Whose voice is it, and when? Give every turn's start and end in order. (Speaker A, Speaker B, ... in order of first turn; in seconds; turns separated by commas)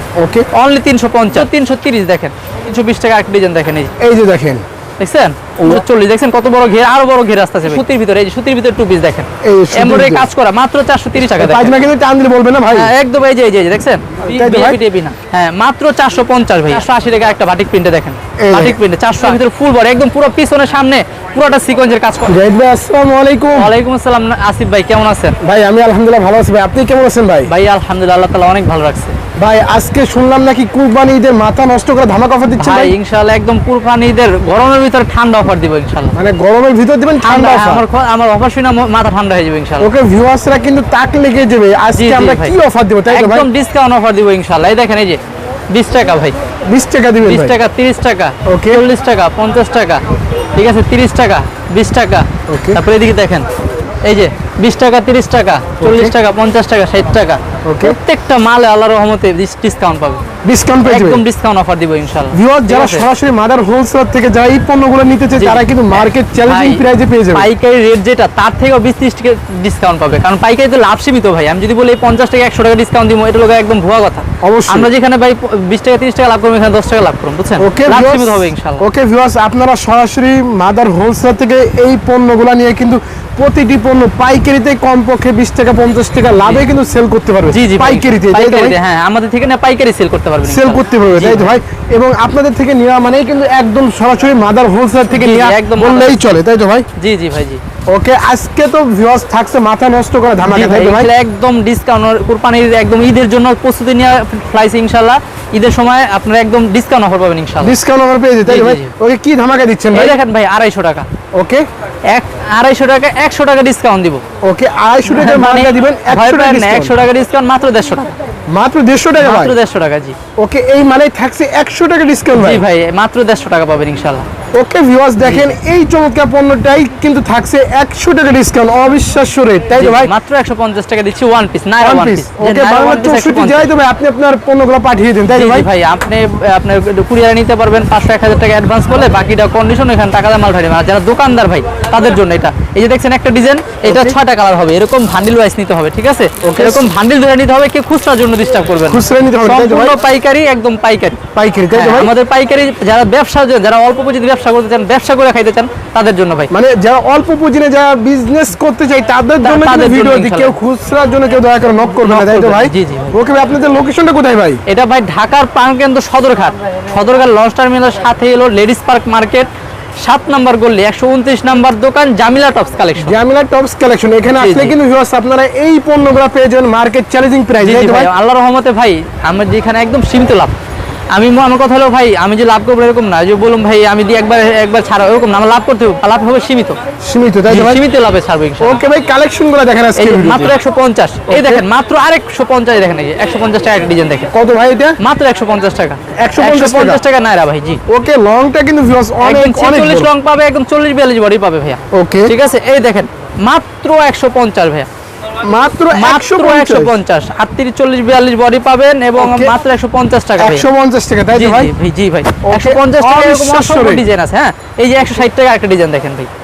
Speaker A: 0.2-0.5, Speaker B: 0.5-3.9, Speaker A: 4.0-4.6, Speaker B: 5.0-11.8, Speaker A: 5.6-5.8, Speaker A: 9.4-10.3, Speaker A: 11.2-12.9, Speaker B: 12.7-22.4, Speaker A: 14.2-14.8, Speaker A: 18.4-19.4, Speaker A: 22.3-23.7, Speaker B: 23.5-25.4, Speaker A: 25.4-27.5, Speaker B: 27.5-29.2, Speaker A: 29.4-33.0, Speaker B: 32.6-36.1, Speaker A: 36.1-37.9, Speaker B: 37.2-39.9, Speaker A: 39.8-43.5, Speaker B: 41.9-42.5, Speaker B: 43.1-45.2, Speaker B: 45.7-46.4, Speaker A: 46.7-47.6, Speaker B: 47.2-50.0, Speaker A: 48.5-48.8, Speaker B: 50.5-53.5, Speaker A: 52.5-52.8, Speaker B: 54.0-60.2, Speaker A: 55.8-56.1, Speaker A: 57.6-58.0, Speaker A: 60.4-61.2, Speaker B: 60.8-63.0, Speaker A: 62.3-67.5, Speaker B: 65.3-66.8, Speaker B: 67.3-78.8, Speaker A: 74.4-74.9, Speaker A: 77.6-88.8, Speaker B: 87.5-91.5, Speaker A: 90.4-96.8, Speaker B: 95.1-96.3, Speaker B: 97.0-97.6, Speaker A: 97.9-101.1, Speaker B: 100.5-107.8, Speaker A: 107.6-110.2, Speaker B: 108.5-108.9, Speaker B: 109.9-111.1, Speaker A: 111.3-111.7, Speaker B: 112.1-114.2, Speaker A: 114.4-116.9, Speaker B: 115.1-118.1, Speaker A: 118.5-119.6, Speaker B: 119.2-120.2, Speaker A: 120.4-122.6, Speaker B: 122.3-124.2, Speaker A: 124.5-130.1, Speaker B: 125.2-125.5, Speaker B: 129.8-133.7, Speaker A: 131.8-135.7, Speaker B: 135.3-151.2, Speaker A: 143.8-144.2, Speaker A: 146.4-146.9, Speaker A: 148.8-150.0, Speaker A: 151.3-152.1, Speaker B: 151.7-156.5, Speaker A: 156.5-164.6, Speaker B: 159.4-160.6, Speaker B: 162.0-163.2, Speaker B: 164.7-169.5, Speaker B: 170.0-173.2, Speaker A: 173.0-178.1, Speaker B: 174.3-174.7, Speaker B: 177.6-180.5, Speaker B: 181.1-186.8, Speaker A: 187.0-187.8, Speaker B: 187.5-188.8, Speaker A: 188.6-190.6, Speaker B: 189.9-194.3, Speaker A: 191.3-191.6, Speaker A: 194.3-195.0, Speaker B: 195.0-197.8, Speaker A: 196.2-197.0, Speaker A: 197.9-200.1, Speaker B: 199.2-204.9, Speaker A: 201.9-202.3, Speaker A: 205.4-206.9, Speaker B: 205.9-210.6, Speaker A: 209.2-209.6, Speaker A: 210.4-211.7, Speaker B: 211.3-216.3, Speaker A: 212.4-214.0